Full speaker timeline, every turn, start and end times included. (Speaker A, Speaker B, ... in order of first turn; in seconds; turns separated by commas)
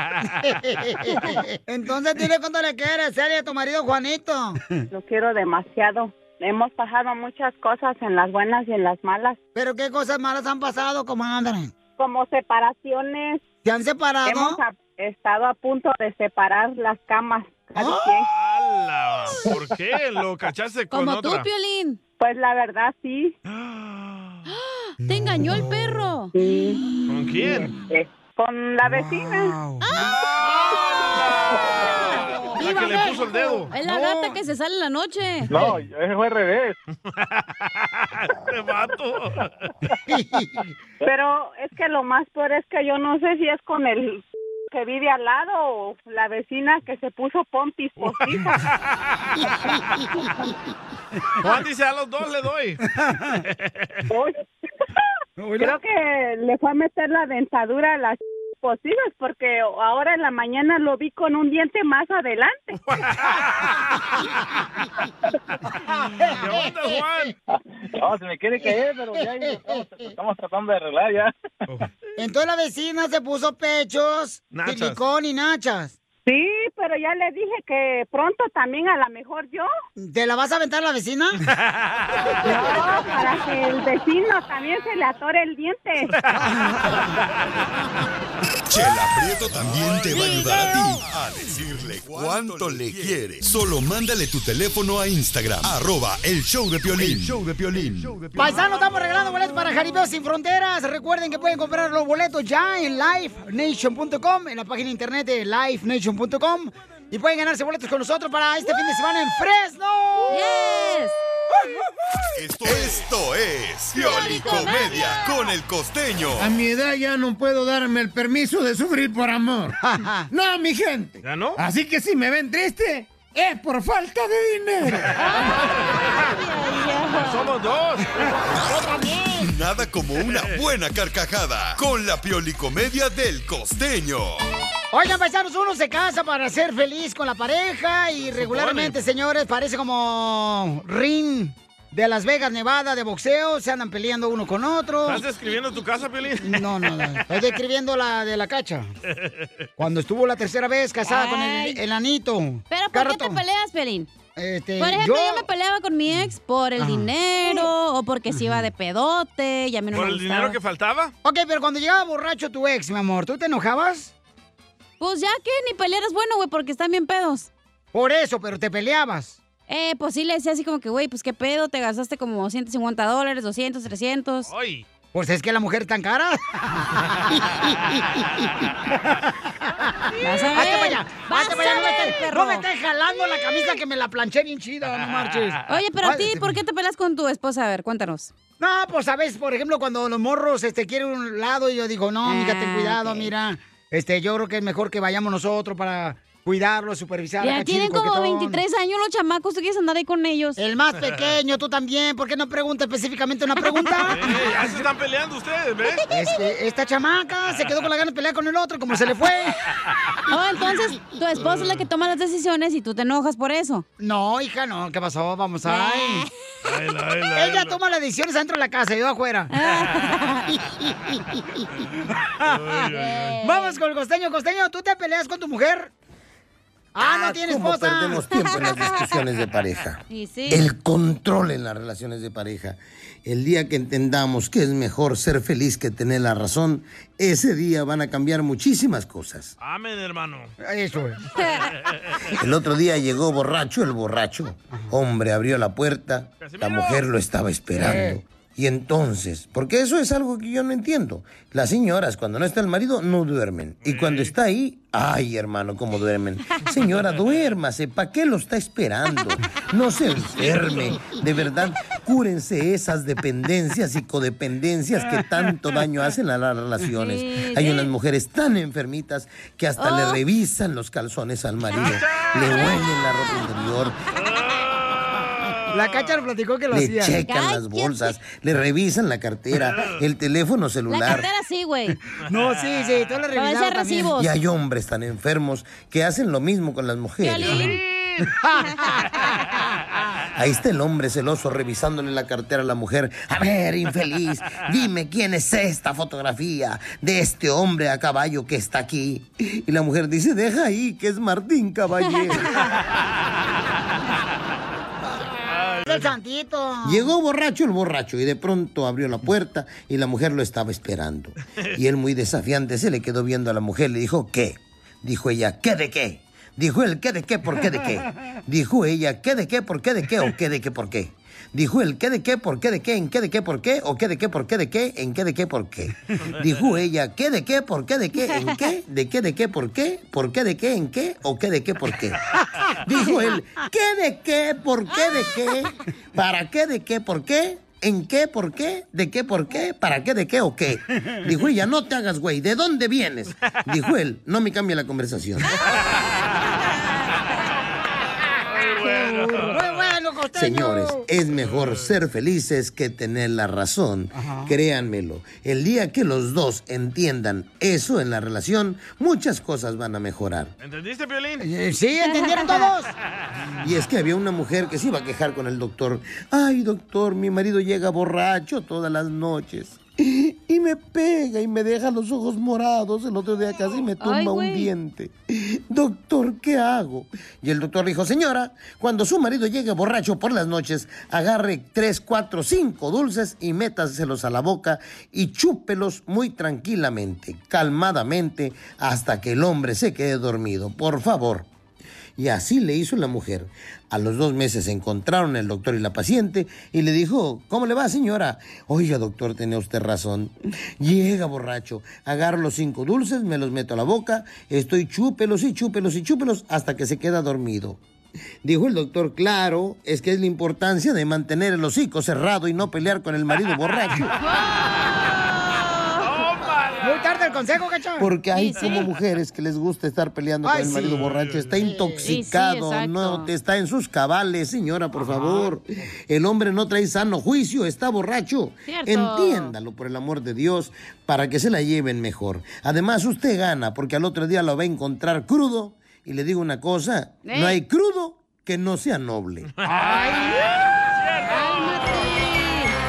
Speaker A: 0.4-4.6, Speaker B: 4.9-9.4, Speaker A: 9.6-11.7, Speaker B: 12.0-13.4, Speaker A: 13.6-14.6, Speaker B: 14.3-18.3, Speaker A: 17.8-18.0, Speaker C: 18.3-21.5, Speaker D: 20.9-22.0, Speaker B: 22.2-23.3, Speaker C: 23.5-24.4, Speaker D: 24.5-26.3, Speaker A: 25.2-25.6, Speaker B: 26.4-26.8, Speaker C: 27.1-27.7, Speaker B: 27.6-29.6, Speaker A: 28.9-30.1, Speaker D: 29.8-30.2, Speaker C: 31.3-33.7, Speaker D: 32.6-35.5, Speaker A: 33.7-34.4, Speaker E: 35.5-36.8, Speaker C: 37.2-39.5, Speaker A: 40.1-40.7, Speaker B: 41.0-48.6, Speaker C: 48.0-49.3, Speaker C: 51.4-52.8, Speaker C: 53.5-54.0, Speaker B: 54.1-54.4, Speaker A: 55.4-55.8, Speaker B: 55.6-62.8, Speaker C: 62.8-63.9, Speaker C: 66.2-67.4, Speaker A: 66.2-66.5, Speaker E: 67.5-71.3, Speaker A: 72.2-76.0, Speaker C: 74.5-75.0, Speaker B: 76.3-79.7, Speaker A: 80.0-81.4, Speaker C: 81.6-82.3, Speaker B: 82.4-86.1, Speaker F: 88.7-98.3, Speaker A: 90.1-90.8, Speaker A: 98.3-110.4, Speaker D: 110.3-111.2, Speaker F: 112.4-116.6, Speaker D: 114.0-115.5, Speaker G: 116.4-119.8, Speaker A: 119.8-120.3, Speaker G: 120.3-125.1, Speaker C: 121.2-121.6, Speaker D: 125.2-127.5, Speaker C: 127.2-128.3, Speaker A: 128.6-129.5, Speaker F: 129.4-134.4, Speaker A: 134.9-145.2, Speaker C: 138.3-139.0, Speaker C: 145.1-147.2, Speaker A: 146.4-148.9, Speaker C: 149.2-149.5, Speaker A: 149.8-153.4, Speaker D: 151.1-151.8, Speaker D: 152.7-154.1, Speaker A: 154.4-155.5, Speaker D: 154.8-160.6, Speaker A: 156.1-157.6, Speaker A: 158.3-158.7, Speaker C: 159.9-161.1, Speaker A: 161.2-164.1, Speaker D: 165.0-167.5, Speaker A: 167.9-169.4, Speaker D: 169.7-174.5, Speaker C: 174.5-174.8, Speaker A: 175.1-177.3, Speaker D: 180.2-182.7, Speaker A: 180.5-186.6, Speaker D: 185.7-188.3, Speaker A: 188.6-198.6, Speaker D: 192.2-193.3, Speaker D: 197.4-200.6, Speaker A: 200.6-204.2, Speaker C: 204.1-206.0, Speaker A: 206.1-209.6, Speaker D: 210.3-213.8, Speaker C: 211.4-211.9, Speaker A: 214.0-216.3, Speaker D: 215.7-216.3, Speaker C: 216.6-217.8, Speaker A: 217.3-219.5, Speaker D: 219.5-220.5, Speaker C: 222.4-223.4, Speaker A: 222.4-222.8, Speaker D: 223.0-223.8, Speaker A: 223.4-225.9, Speaker A: 226.9-228.2, Speaker H: 227.0-239.5, Speaker D: 228.3-229.0, Speaker D: 230.1-230.7, Speaker C: 239.6-240.5, Speaker A: 240.6-241.2, Speaker D: 241.4-241.7, Speaker H: 242.4-274.0, Speaker C: 246.4-247.1, Speaker A: 247.8-248.2, Speaker C: 253.8-254.3, Speaker D: 266.9-267.9, Speaker D: 269.8-270.2, Speaker C: 271.8-272.4, Speaker D: 272.5-273.4, Speaker A: 275.7-277.2, Speaker H: 276.7-281.3, Speaker D: 277.3-278.1, Speaker D: 280.9-282.0, Speaker A: 282.2-284.1, Speaker D: 283.3-284.3, Speaker H: 284.2-287.7, Speaker D: 287.2-287.8, Speaker C: 287.6-288.1, Speaker A: 288.4-289.3, Speaker H: 290.4-302.6, Speaker D: 302.0-302.7, Speaker C: 305.5-306.1, Speaker A: 305.9-307.1, Speaker H: 306.8-332.2, Speaker D: 328.3-328.6, Speaker H: 332.8-345.6, Speaker D: 333.1-333.3, Speaker C: 348.6-349.6, Speaker A: 348.7-351.0, Speaker H: 350.3-360.5, Speaker C: 351.4-351.9, Speaker A: 354.1-354.5, Speaker C: 360.6-361.4, Speaker A: 361.4-362.9, Speaker D: 362.1-362.7, Speaker H: 363.6-391.5, Speaker D: 374.0-374.7, Speaker H: 392.2-407.8, Speaker H: 408.4-414.1, Speaker D: 415.1-416.1, Speaker C: 416.0-417.4, Speaker A: 416.8-418.1, Speaker H: 418.0-439.5, Speaker D: 418.3-418.9, Speaker A: 420.4-421.0, Speaker C: 420.7-421.5, Speaker A: 421.6-422.2, Speaker D: 422.0-423.3, Speaker D: 428.7-429.5, Speaker D: 437.2-437.6, Speaker C: 439.6-442.1, Speaker A: 439.7-440.4, Speaker D: 441.3-442.7